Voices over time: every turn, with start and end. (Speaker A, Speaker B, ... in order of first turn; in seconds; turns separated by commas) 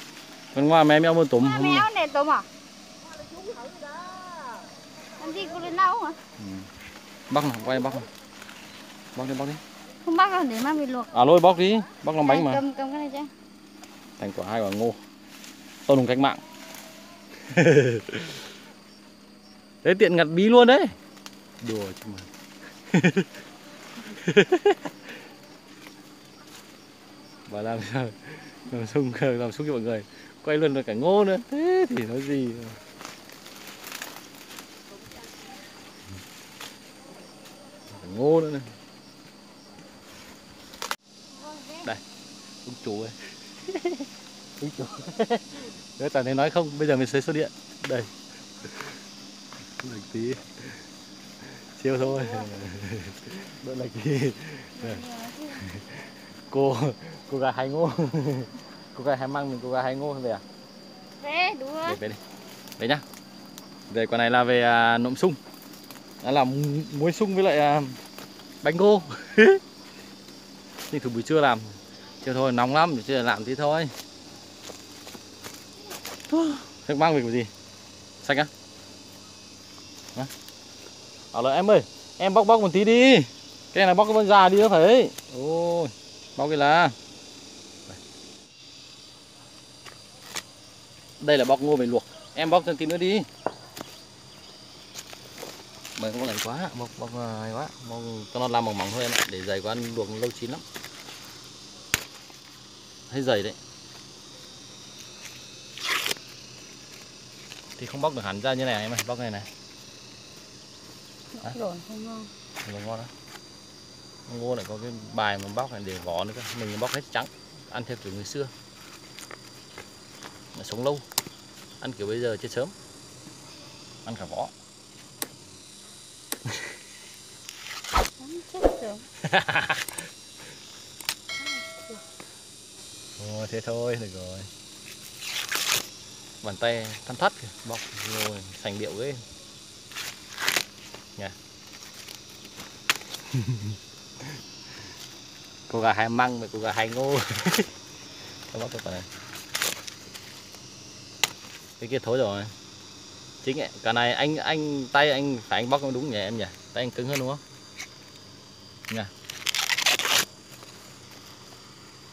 Speaker A: 0.5-1.9, Speaker B: 1.4-2.5, Speaker B: 5.2-6.2, Speaker A: 6.4-6.7, Speaker A: 7.3-8.1, Speaker A: 9.2-9.6, Speaker B: 10.0-11.1, Speaker A: 11.1-12.6, Speaker B: 12.2-13.3, Speaker A: 14.2-15.0, Speaker A: 15.9-16.4, Speaker A: 17.4-18.4, Speaker A: 19.8-21.0, Speaker A: 21.6-22.3, Speaker A: 22.9-23.3, Speaker A: 24.1-24.9, Speaker A: 27.5-32.8, Speaker A: 37.9-38.7, Speaker B: 41.3-41.9, Speaker A: 42.6-48.1, Speaker A: 48.6-49.0, Speaker A: 49.8-50.8, Speaker A: 51.4-55.0, Speaker B: 54.8-55.6, Speaker A: 55.6-60.4, Speaker B: 61.2-62.0, Speaker A: 61.8-62.2, Speaker A: 62.8-63.0, Speaker A: 63.9-65.4, Speaker A: 66.2-68.0, Speaker A: 68.6-69.6, Speaker A: 70.9-73.9, Speaker A: 76.3-77.5, Speaker A: 78.2-78.5, Speaker A: 81.3-87.0, Speaker A: 91.2-93.3, Speaker A: 96.0-100.6, Speaker A: 103.1-103.6, Speaker A: 107.8-109.5, Speaker B: 111.3-112.3, Speaker A: 112.6-113.1, Speaker A: 114.3-118.5, Speaker A: 120.5-121.0, Speaker A: 121.8-122.7, Speaker A: 124.1-124.5, Speaker B: 128.2-129.1, Speaker A: 129.2-129.9, Speaker B: 131.4-132.0, Speaker A: 133.2-134.5, Speaker A: 136.4-139.2, Speaker A: 143.3-143.8, Speaker A: 145.7-147.7, Speaker A: 148.5-149.1, Speaker A: 151.8-152.5, Speaker A: 153.4-157.4